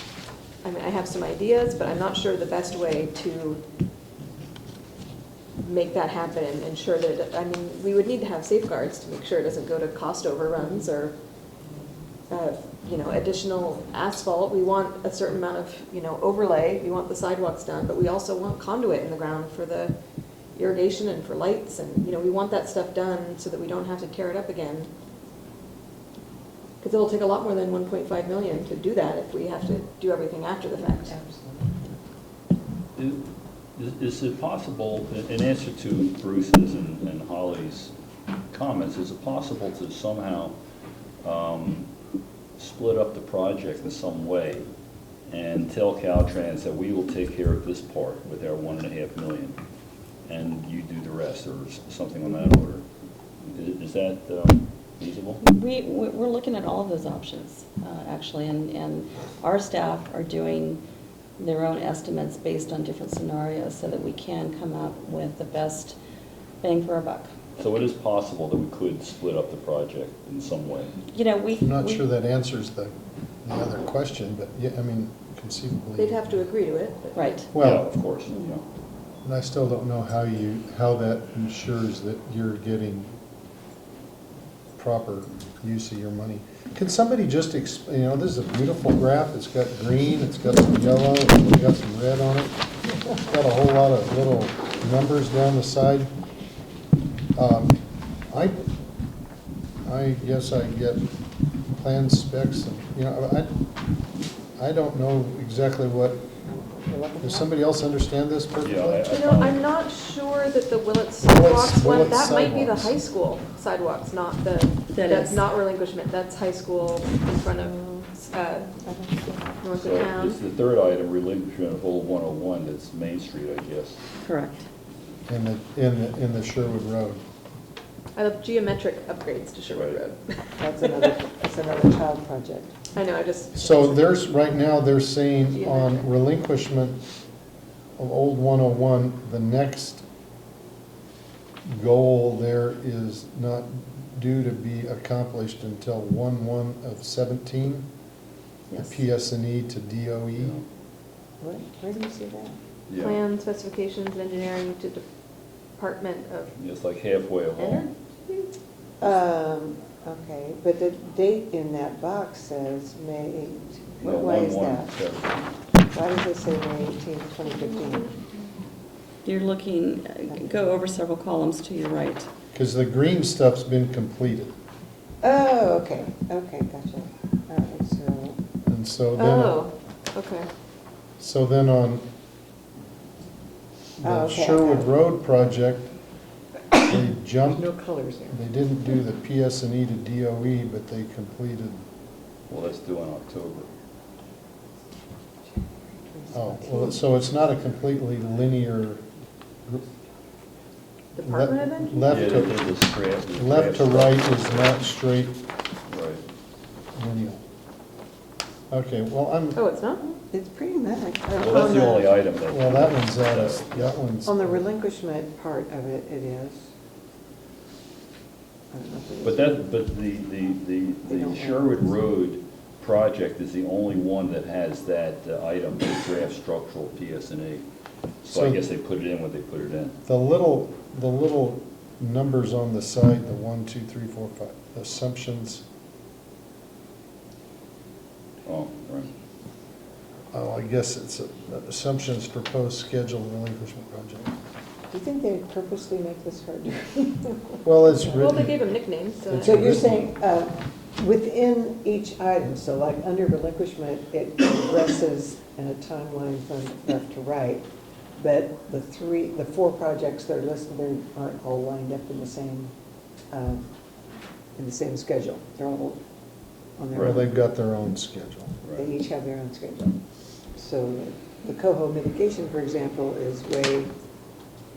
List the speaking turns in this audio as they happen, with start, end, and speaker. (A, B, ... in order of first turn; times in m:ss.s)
0:00.6-0:03.6 A
0:05.6-0:11.2 A
0:12.3-0:20.0 A
0:20.6-0:24.9 A
0:26.8-0:31.2 A
0:30.8-0:32.0 B
0:33.0-0:33.2 C
0:33.8-0:37.9 C
0:38.5-0:40.6 C
0:41.2-0:41.9 C
0:42.6-0:44.7 C
0:45.3-0:49.6 C
0:50.3-0:52.8 C
0:53.4-0:55.4 C
0:55.4-1:00.8 D
1:01.4-1:06.0 D
1:06.6-1:07.4 D
1:07.6-1:11.0 C
1:11.1-1:12.0 D
1:11.6-1:16.3 E
1:16.0-1:17.3 A
1:17.2-1:17.5 D
1:17.5-1:17.9 E
1:17.6-1:18.6 C
1:19.2-1:23.1 E
1:24.8-1:32.6 E
1:33.3-1:36.1 E
1:37.4-1:37.8 E
1:38.3-1:38.7 E
1:39.8-1:41.1 E
1:41.7-1:43.6 E
1:44.6-1:46.3 E
1:46.7-1:47.5 B
1:47.2-1:49.1 E
1:48.6-1:49.6 C
1:49.1-1:58.7 A
1:51.2-1:52.9 E
1:54.9-1:55.4 D
1:58.8-1:59.5 B
1:59.6-2:00.4 A
1:59.8-2:04.0 C
2:04.2-2:04.7 D
2:05.3-2:07.2 E
2:08.2-2:11.1 A
2:09.7-2:10.0 C
2:10.6-2:12.8 B
2:12.9-2:14.3 A
2:13.5-2:17.0 E
2:15.5-2:16.1 A
2:18.0-2:20.0 E
2:21.6-2:27.9 E
2:28.7-2:29.0 D
2:28.8-2:30.6 E
2:30.4-2:30.6 C
2:31.4-2:32.6 B
2:32.9-2:33.2 C
2:33.0-2:35.0 A
2:35.8-2:36.5 A
2:36.6-2:37.9 C
2:37.6-2:38.5 A
2:39.0-2:45.0 B
2:44.0-2:45.5 C
2:45.9-2:48.1 B
2:49.2-2:52.3 D
2:50.3-2:50.8 B
2:52.5-2:54.5 E
2:55.2-2:58.4 B
2:58.7-2:59.6 E
2:59.2-3:00.5 A
3:01.2-3:02.1 E
3:04.0-3:05.9 E
3:04.0-3:04.9 B
3:06.9-3:07.7 E
3:06.9-3:08.4 B
3:08.3-3:11.8 E
3:12.5-3:13.7 C
3:16.1-3:17.0 B
3:16.3-3:19.0 E
3:21.2-3:22.2 A
3:21.2-3:25.4 E
3:22.1-3:24.8 C
3:25.9-3:26.2 C
3:27.0-3:27.4 E
3:28.7-3:29.6 E
3:29.6-3:30.2 A
3:30.3-3:32.2 B
3:31.3-3:34.0 C
3:32.5-3:34.6 E
3:34.3-3:36.7 B
3:38.7-3:39.7 B
3:39.2-3:47.6 C
3:41.1-3:41.9 B
3:48.2-3:50.0 C
3:48.3-3:48.6 E
3:50.0-3:55.6 E
3:58.4-3:59.1 C
4:00.3-4:04.3 E
4:04.9-4:08.4 B
4:07.6-4:08.7 E
4:08.1-4:09.6 A
4:09.2-4:10.1 E
4:09.4-4:17.6 B
4:18.2-4:22.7 B
4:23.3-4:23.7 B
4:24.6-4:26.0 B
4:26.8-4:27.4 B
4:26.9-4:27.2 C
4:26.9-4:28.6 E
4:28.6-4:28.9 C
4:28.8-4:30.0 B
4:30.6-4:33.9 B